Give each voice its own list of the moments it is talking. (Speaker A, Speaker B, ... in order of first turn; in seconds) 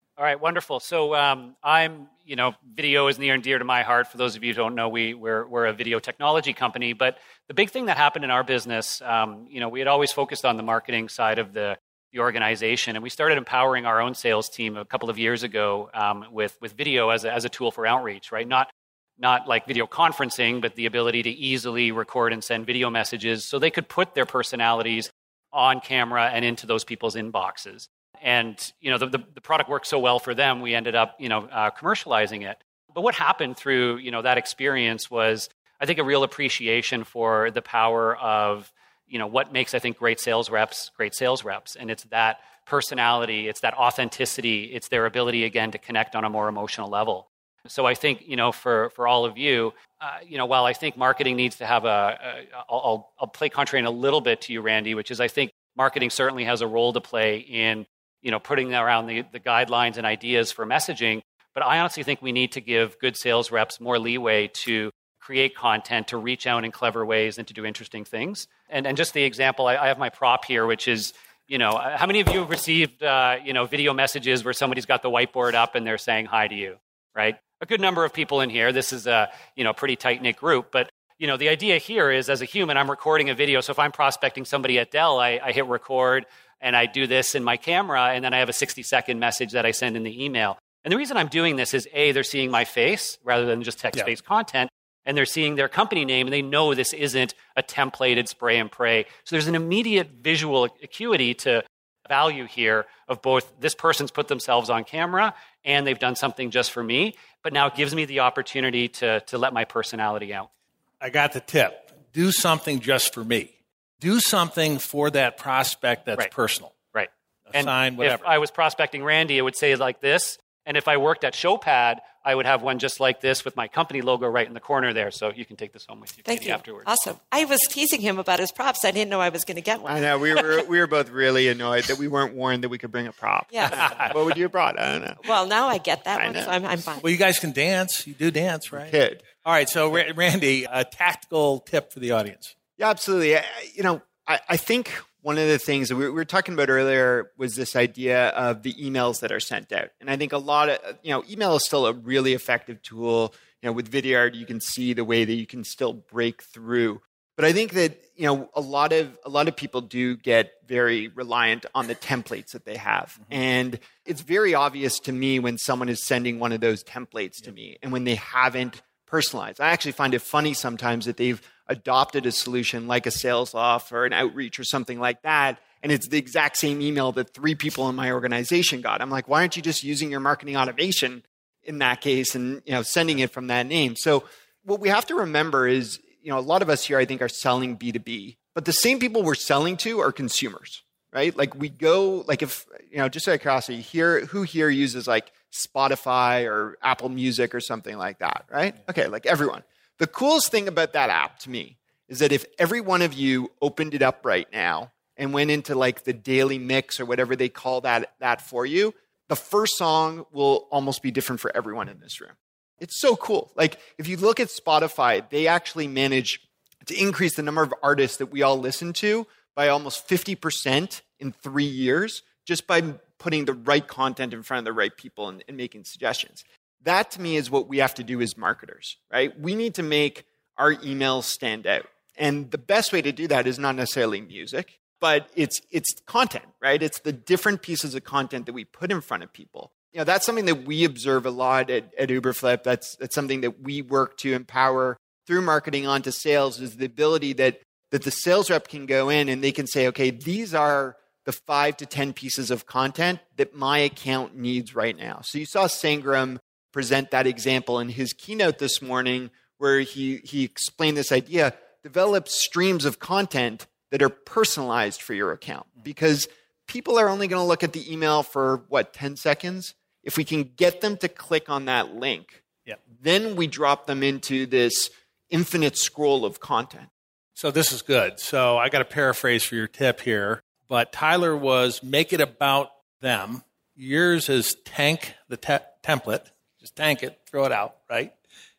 Speaker A: 0.2-110.5, 116.9-126.9
Speaker B: 111.0-116.8, 117.5-118.3, 137.0-142.5, 277.4-288.1
Speaker C: 126.3-130.6, 133.5-133.9, 135.2-137.1
Speaker D: 129.9-135.3, 136.1-136.6, 138.7-139.3, 142.8-272.4, 273.0-276.9